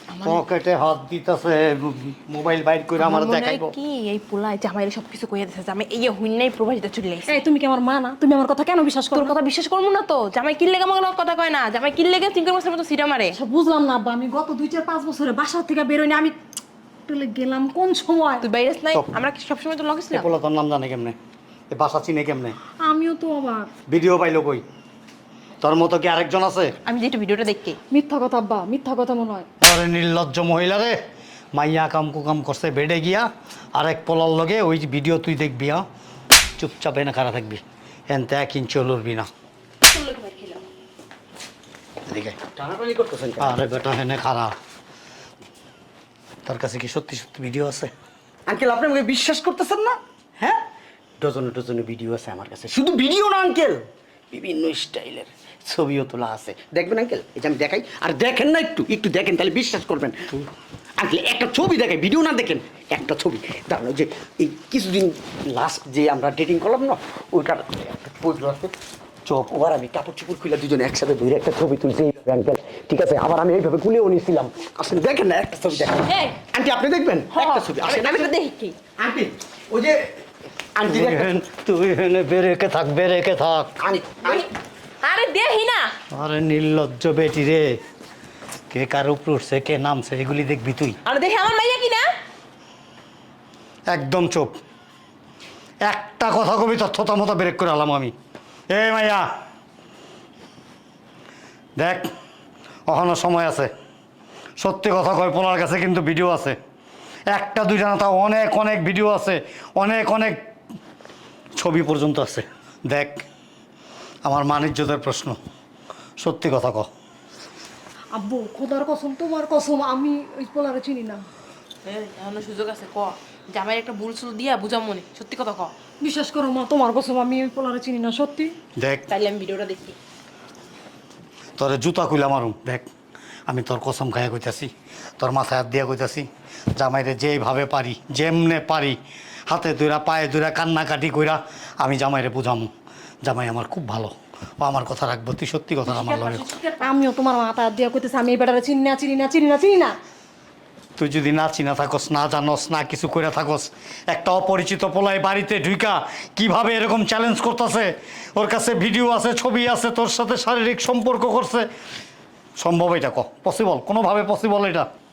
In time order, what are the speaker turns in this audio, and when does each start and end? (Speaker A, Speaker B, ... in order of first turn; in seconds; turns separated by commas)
Speaker A: 0.1-0.4, Speaker B: 0.2-3.7, Speaker A: 3.0-7.4, Speaker C: 7.2-9.3, Speaker A: 9.1-13.4, Speaker C: 13.3-16.4, Speaker C: 17.1-18.4, Speaker A: 18.4-20.3, Speaker B: 20.1-21.1, Speaker B: 21.7-22.6, Speaker C: 22.8-23.7, Speaker B: 23.9-24.6, Speaker B: 25.6-26.7, Speaker A: 26.9-27.8, Speaker C: 27.9-29.5, Speaker B: 29.6-30.9, Speaker B: 31.5-35.9, Speaker B: 36.6-39.3, Speaker A: 39.8-40.6, Speaker B: 42.1-42.4, Speaker D: 42.5-43.6, Speaker B: 43.4-44.5, Speaker B: 46.4-47.9, Speaker D: 48.5-50.6, Speaker D: 51.2-60.5, Speaker D: 61.0-68.7, Speaker D: 69.2-78.3, Speaker A: 76.0-76.3, Speaker A: 77.3-78.7, Speaker D: 79.0-80.2, Speaker D: 80.7-81.3, Speaker B: 80.8-83.7, Speaker D: 83.8-84.5, Speaker A: 84.2-84.5, Speaker A: 85.0-85.9, Speaker B: 86.1-87.8, Speaker B: 88.7-91.0, Speaker A: 91.0-92.0, Speaker B: 93.9-94.6, Speaker B: 95.8-98.1, Speaker B: 98.7-99.2, Speaker B: 101.8-102.1, Speaker B: 102.9-103.7, Speaker B: 104.6-106.5, Speaker B: 107.3-110.4, Speaker B: 111.6-113.2, Speaker B: 114.2-115.4, Speaker B: 116.2-116.9, Speaker C: 118.1-121.2, Speaker A: 121.8-125.7, Speaker C: 126.0-128.5, Speaker B: 128.8-129.0, Speaker A: 129.1-129.9, Speaker B: 131.6-132.8, Speaker B: 133.5-139.0, Speaker B: 139.5-142.7, Speaker B: 143.2-146.4, Speaker A: 145.8-146.9, Speaker C: 146.8-150.0, Speaker B: 151.0-161.7, Speaker B: 162.6-164.9